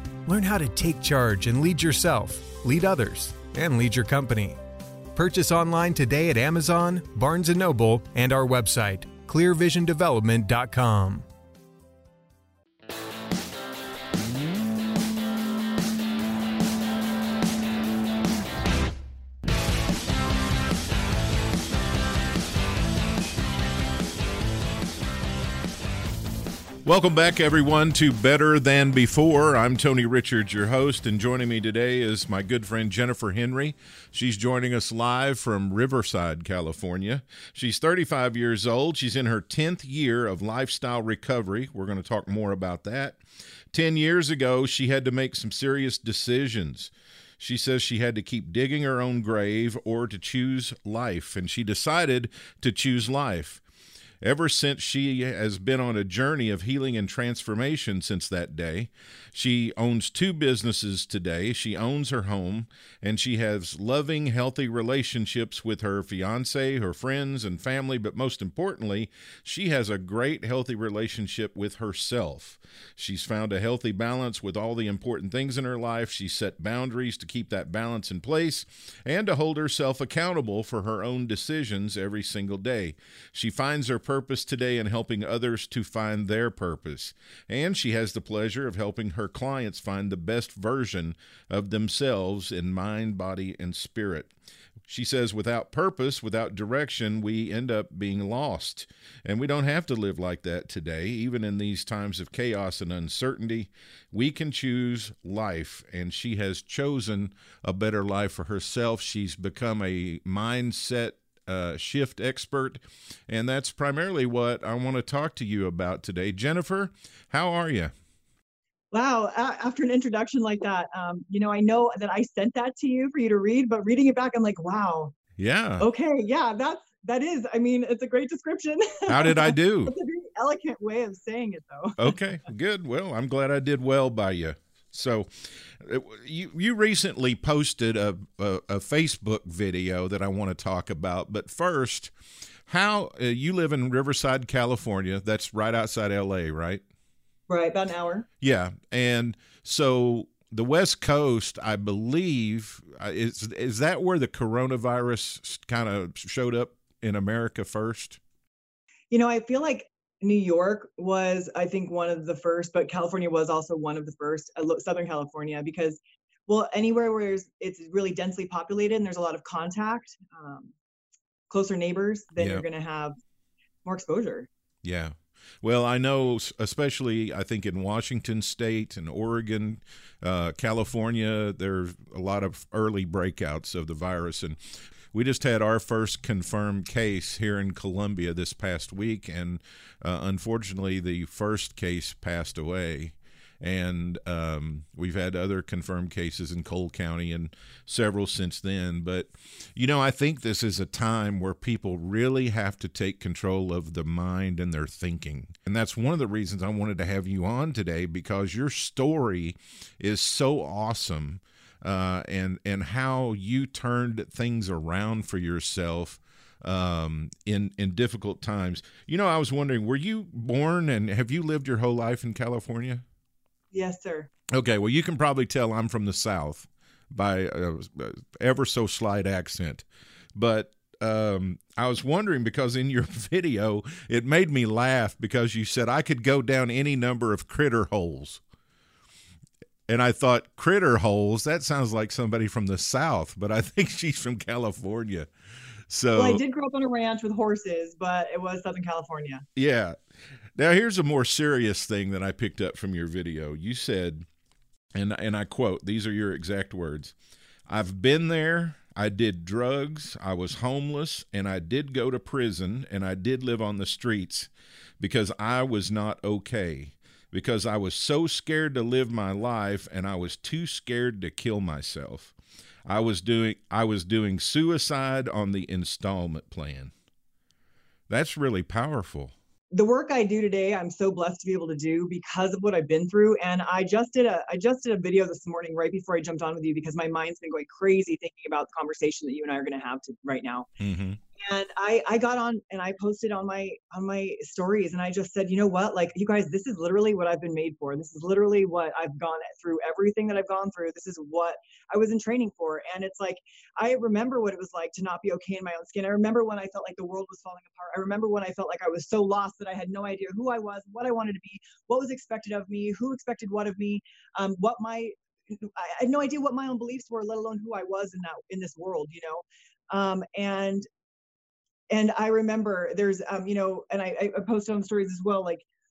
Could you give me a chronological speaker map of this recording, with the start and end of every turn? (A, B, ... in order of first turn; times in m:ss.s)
0:00.2-0:04.6 A
0:05.1-0:11.2 A
0:26.8-0:53.6 B
0:54.2-1:34.3 B
1:34.9-1:57.9 B
1:58.9-2:05.1 C
2:05.4-2:05.9 B
2:05.8-2:12.2 C
2:09.1-2:09.9 B
2:12.0-2:22.1 B
2:22.7-2:26.8 B
2:27.5-2:28.3 C
2:28.4-2:38.2 B
2:39.1-2:50.7 C
2:51.5-2:53.2 C
2:52.4-2:52.6 B
2:53.8-2:54.5 C
2:54.8-3:43.0 B
3:43.7-3:44.3 C
3:44.5-3:49.8 B
3:50.3-3:58.4 B
3:59.9-4:05.3 B
4:05.9-4:06.4 B
4:06.1-4:09.4 C
4:09.6-4:10.0 B
4:10.6-4:14.2 B
4:14.9-4:17.1 B
4:17.7-4:32.3 B
4:32.8-4:36.9 B
4:38.1-4:39.3 B
4:39.7-4:50.7 C
4:50.8-4:51.2 B
4:51.4-5:20.8 C
5:21.9-5:25.6 C